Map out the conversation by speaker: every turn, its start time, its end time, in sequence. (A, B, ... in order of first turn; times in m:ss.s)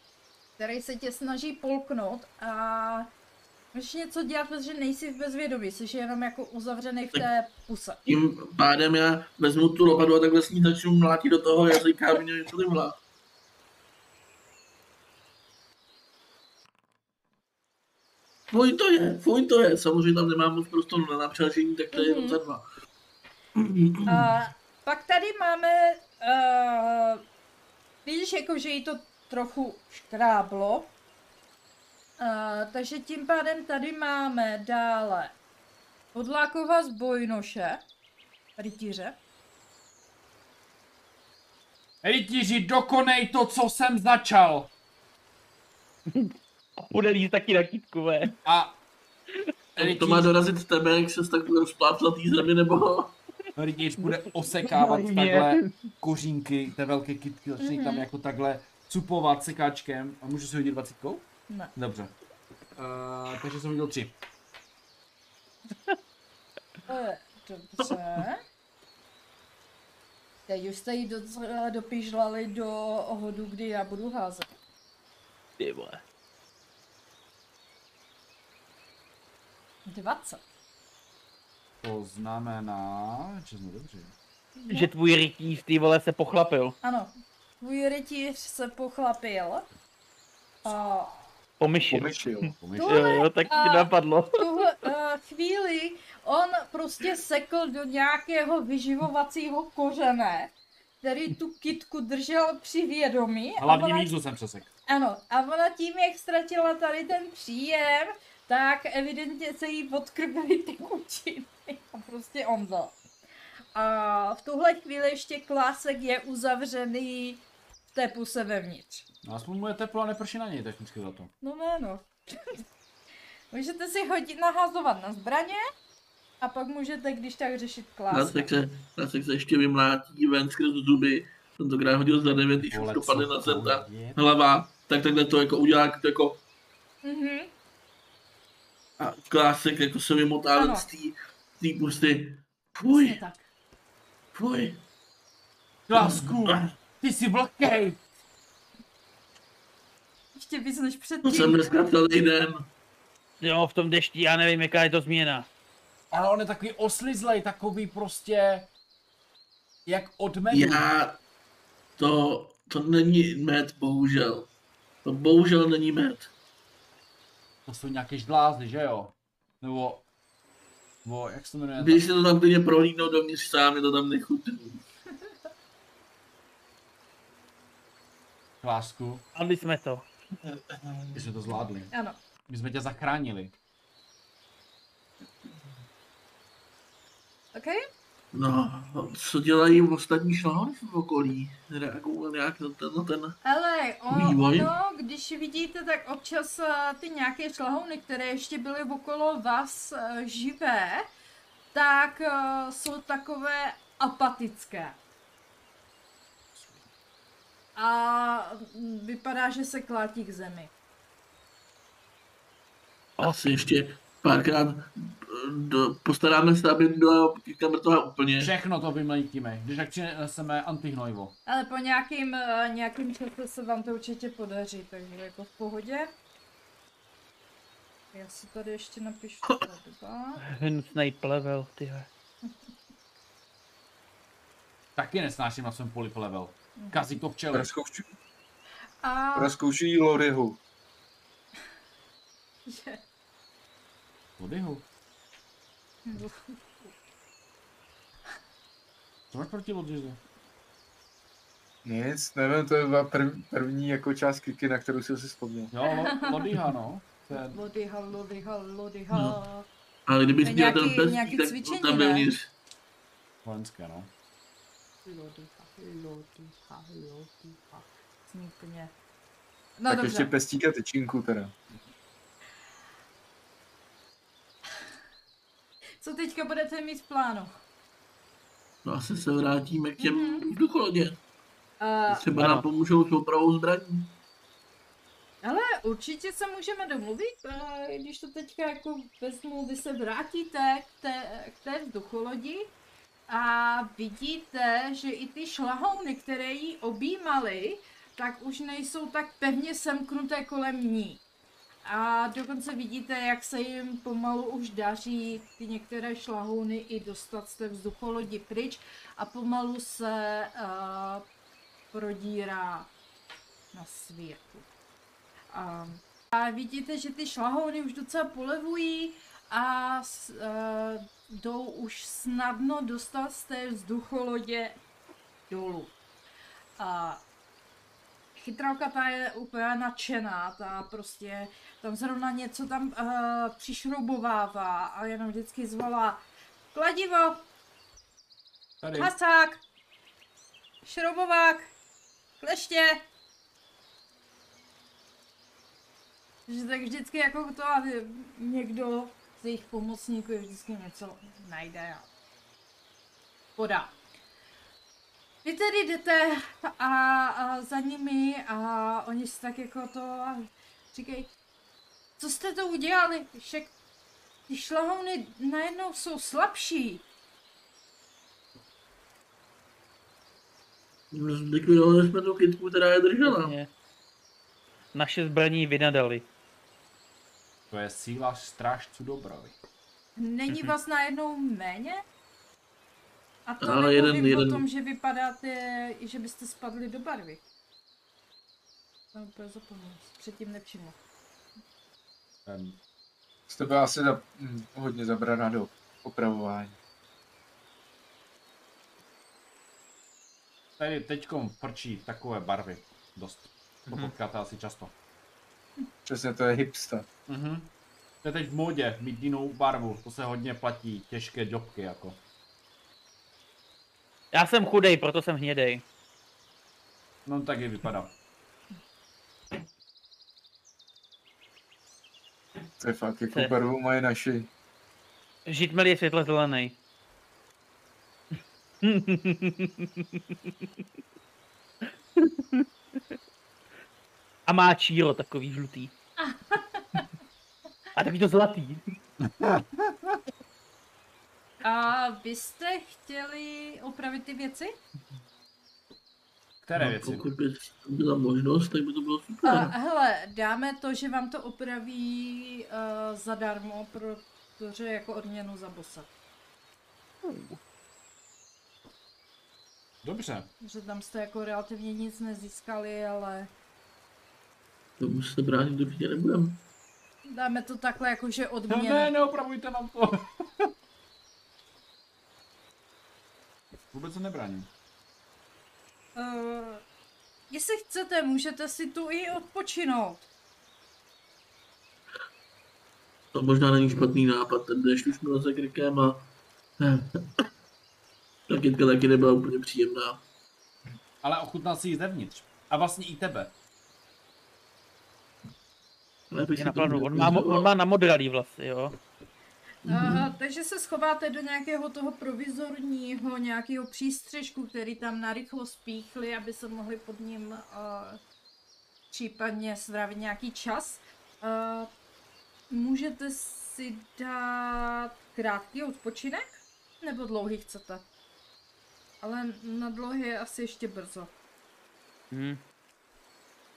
0:00.6-0:03.1 A
0:03.7-0:08.0 A
0:08.1-0:13.0 B
0:18.5-0:22.6 B
0:21.9-0:22.4 A
0:23.6-0:24.4 B
0:24.1-0:27.2 A
0:28.0-0:30.9 A
0:32.2-0:35.4 A
0:36.1-0:37.8 A
0:38.6-0:39.2 A
0:42.0-0:44.7 C
0:46.1-0:48.3 D
0:48.4-0:48.8 C
0:49.8-0:50.3 C
0:49.8-0:53.2 B
0:53.6-1:02.1 C
0:54.0-0:55.7 D
0:57.6-0:58.1 A
1:02.8-1:04.2 C
1:06.9-1:08.4 A
1:10.5-1:14.5 A
1:15.6-1:16.0 D
1:19.9-1:20.4 A
1:21.8-1:24.1 C
1:24.6-1:24.9 A
1:24.7-1:26.8 D
1:26.8-1:29.7 A
1:30.6-1:31.2 A
1:31.6-1:34.6 D
1:31.9-1:32.5 E
1:32.6-1:33.1 C
1:32.7-1:44.1 A
1:43.6-1:44.7 C
1:44.9-1:53.0 A
1:53.8-1:59.0 A
1:59.2-2:01.3 C
2:01.4-2:02.6 A
2:03.5-2:05.6 A
2:06.4-2:08.5 A
2:08.1-2:16.4 B
2:12.7-2:14.2 C
2:17.0-2:17.5 A
2:19.0-2:23.2 B
2:20.6-2:20.9 A
2:22.9-2:23.5 A
2:24.3-2:24.8 B
2:25.9-2:28.0 C
2:25.9-2:26.6 B
2:30.4-2:31.9 A
2:31.2-2:32.7 B
2:33.4-2:35.5 D
2:36.1-2:38.7 C
2:39.9-2:40.9 C
2:40.5-2:41.2 B
2:42.0-2:44.5 B
2:45.0-2:46.3 B
2:47.7-2:50.0 C
2:51.0-2:52.0 C
2:51.8-2:54.8 B
2:58.6-2:59.2 C
2:59.4-3:00.1 D
3:01.1-3:01.9 C
3:01.9-3:02.2 A
3:02.5-3:03.5 C
3:07.5-3:07.8 A
3:08.3-3:13.4 B
3:13.4-3:21.1 A
3:14.1-3:14.7 B
3:21.7-3:25.0 A
3:26.5-3:26.8 C
3:27.8-3:30.7 A
3:33.2-3:38.5 B
3:38.4-3:41.4 C
3:41.5-3:46.1 A
3:48.1-3:50.4 A
3:50.4-3:52.1 D
3:55.0-3:57.7 C
3:56.8-3:57.1 A
3:57.5-3:58.1 E
3:59.0-3:59.6 A
3:59.4-4:00.6 E
4:02.7-4:03.0 A
4:04.4-4:04.9 C
4:06.0-4:06.9 A
4:09.3-4:10.2 C
4:11.8-4:15.7 E
4:15.7-4:17.6 C
4:16.0-4:16.4 A
4:17.3-4:19.7 A
4:19.1-4:19.4 B
4:20.1-4:22.5 B
4:20.4-4:22.3 A
4:23.4-4:24.1 C
4:25.0-4:28.9 A
4:29.8-4:30.3 A
4:29.9-4:31.5 E
4:36.0-4:37.5 A
4:38.8-4:41.2 B
4:40.0-4:40.5 A
4:41.8-4:42.3 A
4:42.1-4:44.2 B
4:42.3-4:42.6 D
4:45.4-4:52.7 A
4:53.3-5:01.2 A
5:01.8-5:11.3 A
5:11.9-5:12.9 A
5:13.7-5:14.7 A
5:15.5-5:24.8 A
5:25.5-5:25.9 A
5:26.8-5:27.2 A
5:28.4-5:36.2 A
5:36.7-5:37.5 A
5:38.8-5:39.1 C
5:38.9-5:39.6 A
5:40.8-5:41.7 A
5:42.4-5:43.0 A
5:46.5-5:52.1 A
5:53.6-5:54.0 A
5:55.4-6:01.3 A
6:02.2-6:03.7 A
6:04.5-6:07.0 A
6:11.1-6:13.6 B
6:13.2-6:13.7 D
6:14.9-6:16.3 D
6:17.7-6:19.6 C
6:20.2-6:22.0 A
6:23.5-6:27.4 A
6:23.6-6:24.6 B
6:29.1-6:31.0 A
6:32.4-6:32.8 C
6:33.5-6:36.8 E
6:40.8-6:44.9 C
6:46.1-6:47.1 E
6:47.3-6:47.7 C
6:48.2-6:52.2 C
6:54.3-6:55.8 D
6:57.2-6:58.2 C
7:02.8-7:04.5 E
7:05.5-7:06.8 D
7:08.8-7:10.0 D
7:12.2-7:12.6 D
7:14.5-7:15.9 D
7:16.2-7:17.0 A
7:18.0-7:18.8 D
7:19.2-7:20.2 C
7:21.6-7:24.8 A
7:26.6-7:27.2 C
7:26.8-7:29.7 B
7:29.4-7:36.1 A
7:37.2-7:37.6 D
7:40.0-7:40.5 C
7:40.6-7:43.5 A
7:45.0-7:46.6 B
7:47.3-7:49.1 A
7:48.7-7:50.7 C
7:53.9-7:54.7 C
7:56.2-7:56.8 A
7:57.5-8:00.3 A
8:03.3-8:06.3 B
8:06.8-8:07.4 B
8:08.5-8:10.2 B
8:11.2-8:13.5 C
8:16.3-8:17.7 B
8:16.6-8:19.0 D
8:19.9-8:20.3 B
8:19.9-8:28.2 A
8:29.1-8:31.9 A
8:32.7-8:38.1 A
8:39.2-8:41.3 A
8:42.3-8:42.6 D